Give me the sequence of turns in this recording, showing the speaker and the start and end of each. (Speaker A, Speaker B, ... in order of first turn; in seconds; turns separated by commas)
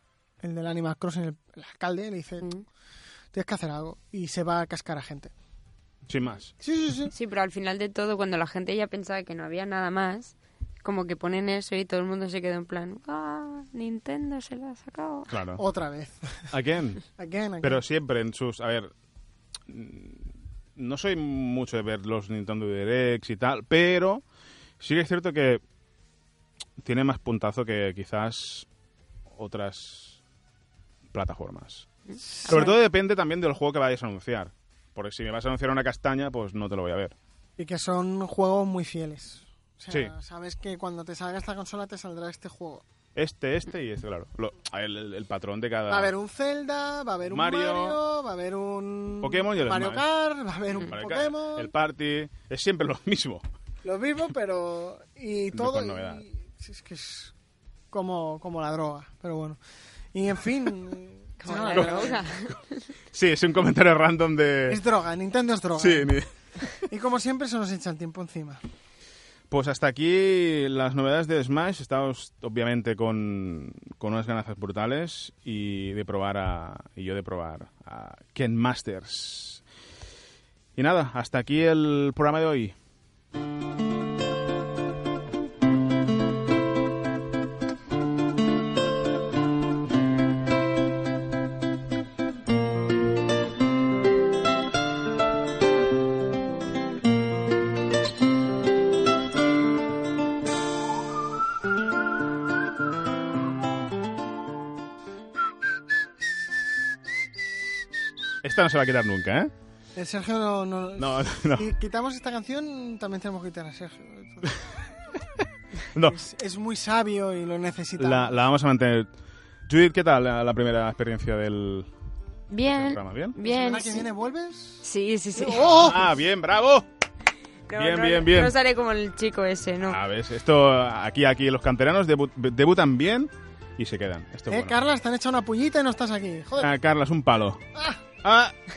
Speaker A: 0.4-2.5, Speaker A: 3.3-5.3, Speaker B: 6.1-6.5, Speaker A: 6.6-7.1, Speaker C: 7.1-15.3, Speaker B: 15.3-15.6, Speaker A: 15.6-16.5, Speaker B: 16.5-17.0, Speaker A: 17.2-17.8, Speaker B: 17.6-18.9, Speaker B: 19.7-24.2, Speaker B: 24.8-25.6, Speaker B: 26.8-28.7, Speaker B: 29.3-30.2, Speaker B: 31.1-31.9, Speaker A: 32.1-32.8, Speaker B: 32.4-37.1, Speaker A: 37.6-42.8, Speaker B: 43.1-46.1, Speaker A: 45.9-51.7, Speaker B: 47.3-48.0, Speaker B: 49.2-50.0, Speaker B: 50.8-53.4, Speaker A: 53.8-57.3, Speaker B: 55.5-56.2, Speaker A: 57.9-59.6, Speaker A: 60.1-62.3, Speaker C: 61.4-62.9, Speaker B: 61.7-62.2, Speaker B: 63.1-64.8, Speaker A: 64.7-66.1, Speaker B: 65.8-66.8, Speaker A: 66.9-68.6, Speaker B: 69.5-79.6, Speaker B: 80.8-82.7, Speaker B: 108.4-109.5, Speaker A: 109.9-114.5, Speaker B: 111.0-111.7, Speaker B: 115.9-116.2, Speaker A: 116.0-118.4, Speaker B: 118.0-119.1, Speaker B: 119.7-121.9, Speaker C: 122.5-124.1, Speaker B: 122.7-123.3, Speaker A: 123.4-124.8, Speaker C: 124.8-125.9, Speaker A: 125.3-126.1, Speaker B: 125.7-126.8, Speaker C: 127.7-130.0, Speaker B: 127.8-128.5, Speaker B: 129.8-134.8, Speaker A: 134.5-136.7, Speaker B: 136.6-137.6, Speaker A: 137.7-138.0, Speaker B: 138.2-138.5